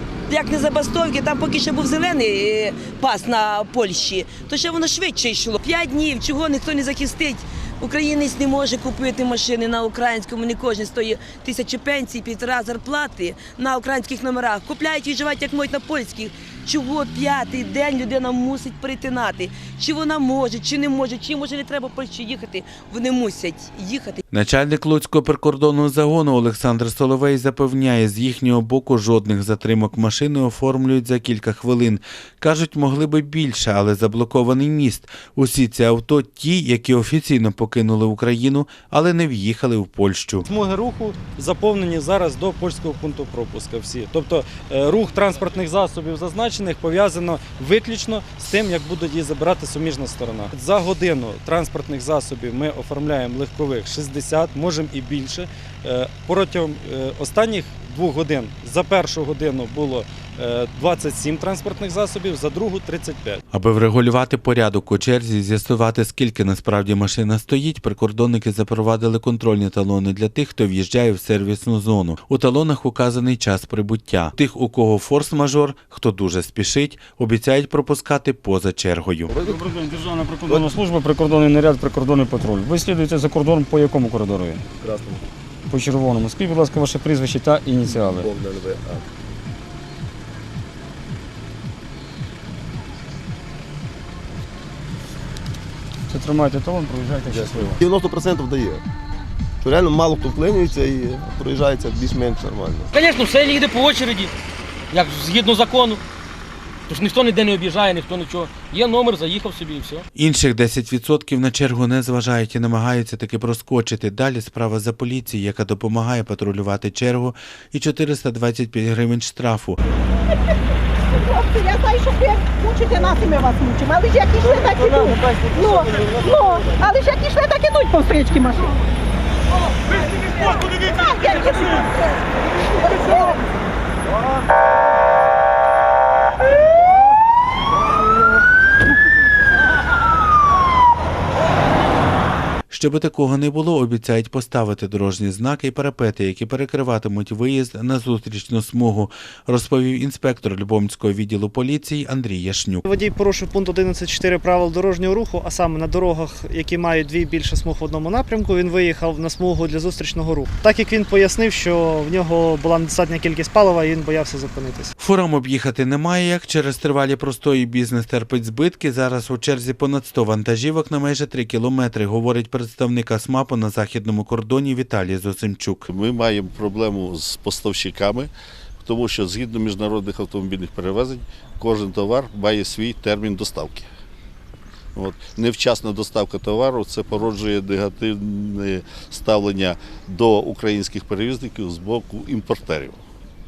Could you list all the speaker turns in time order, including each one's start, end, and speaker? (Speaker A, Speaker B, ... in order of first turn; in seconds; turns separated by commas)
Speaker A: 0.3-24.2, Speaker B: 24.3-40.5, Speaker C: 40.5-63.4, Speaker B: 63.5-79.3, Speaker D: 79.5-84.6, Speaker E: 79.9-80.3, Speaker F: 84.8-85.2, Speaker D: 85.7-88.3, Speaker F: 87.9-89.0, Speaker D: 96.1-97.8, Speaker F: 97.2-98.8, Speaker F: 99.6-102.9, Speaker E: 102.9-104.3, Speaker E: 104.9-106.0, Speaker E: 106.9-110.0, Speaker B: 110.1-119.8, Speaker G: 121.2-128.7, Speaker G: 130.1-133.4, Speaker B: 142.7-152.8, Speaker H: 152.8-164.9, Speaker B: 165.0-175.8, Speaker I: 175.9-178.3, Speaker I: 178.8-183.9, Speaker I: 184.9-193.0